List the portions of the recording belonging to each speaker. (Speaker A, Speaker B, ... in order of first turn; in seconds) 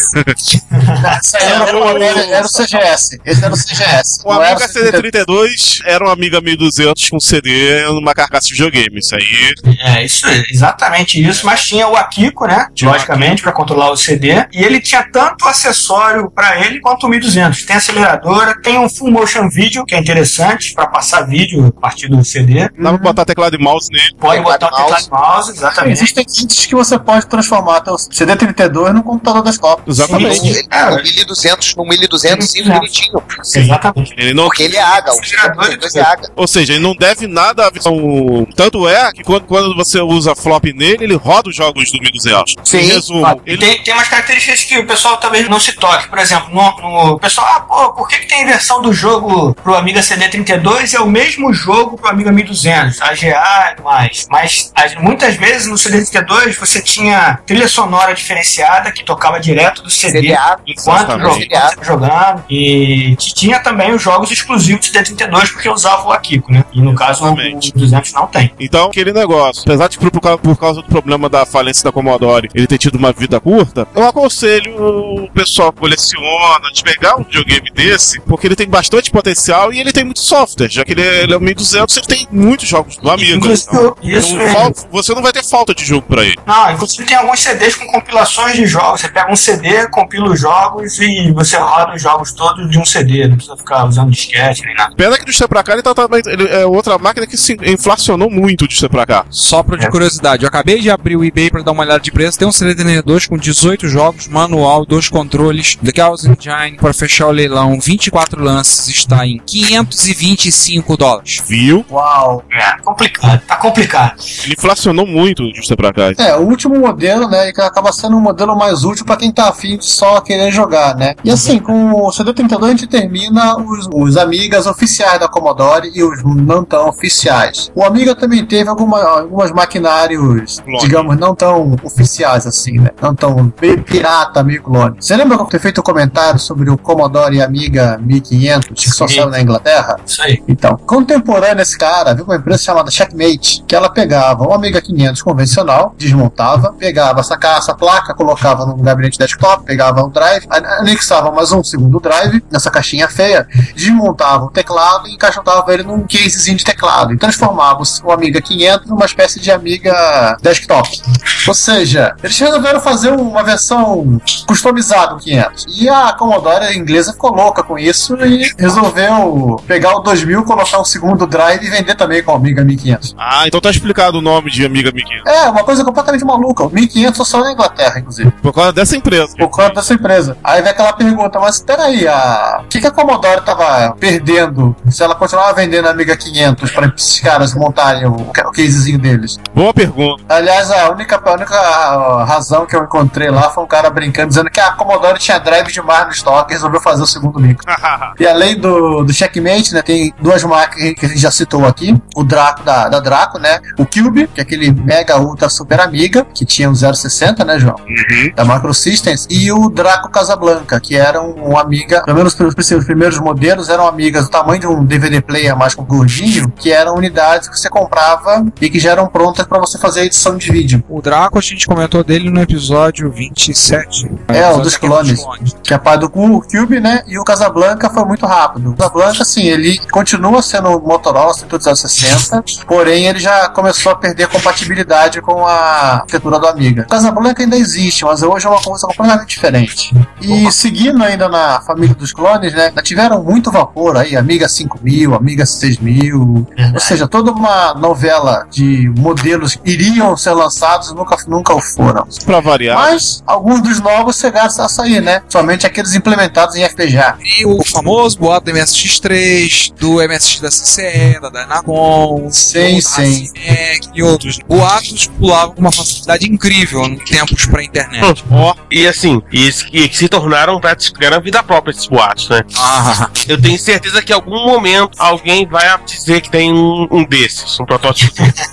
Speaker A: 0.7-2.2, 9.6-22.7, 24.2-26.1, 30.0-31.1, 32.2-32.9, 33.5-34.1, 34.8-36.1, 43.5-68.5, 83.0-84.7, 86.5-94.9, 112.5-114.2, 121.3-121.7, 138.8-139.3, 140.1-140.4, 240.3-240.5, 246.6-247.0
Speaker B: 1.0-5.1, 22.8-23.2, 25.8-30.5, 111.9-112.4, 116.2-173.1, 175.2-178.3, 179.4-189.4, 190.3-197.6, 198.2-220.8, 224.3-257.2, 262.3-263.3
Speaker C: 1.4-2.6, 4.2-9.6, 12.8-13.4, 22.8-24.2, 29.9-30.6, 34.1-34.9, 36.3-43.7, 60.7-61.5, 66.8-67.7, 68.6-86.4, 95.0-99.3, 111.4-111.9, 114.4-116.2, 130.6-131.1, 173.2-175.2, 178.4-179.8, 189.5-190.2, 197.6-198.1, 207.9-208.3, 252.2-253.0, 268.2-268.6
Speaker D: 24.2-25.1, 30.3-33.8, 34.4-36.3, 42.6-43.3, 60.1-61.8
Speaker E: 99.3-111.4, 220.9-225.6, 257.2-268.2, 272.6-273.1
Speaker F: 268.7-272.4, 273.2-278.3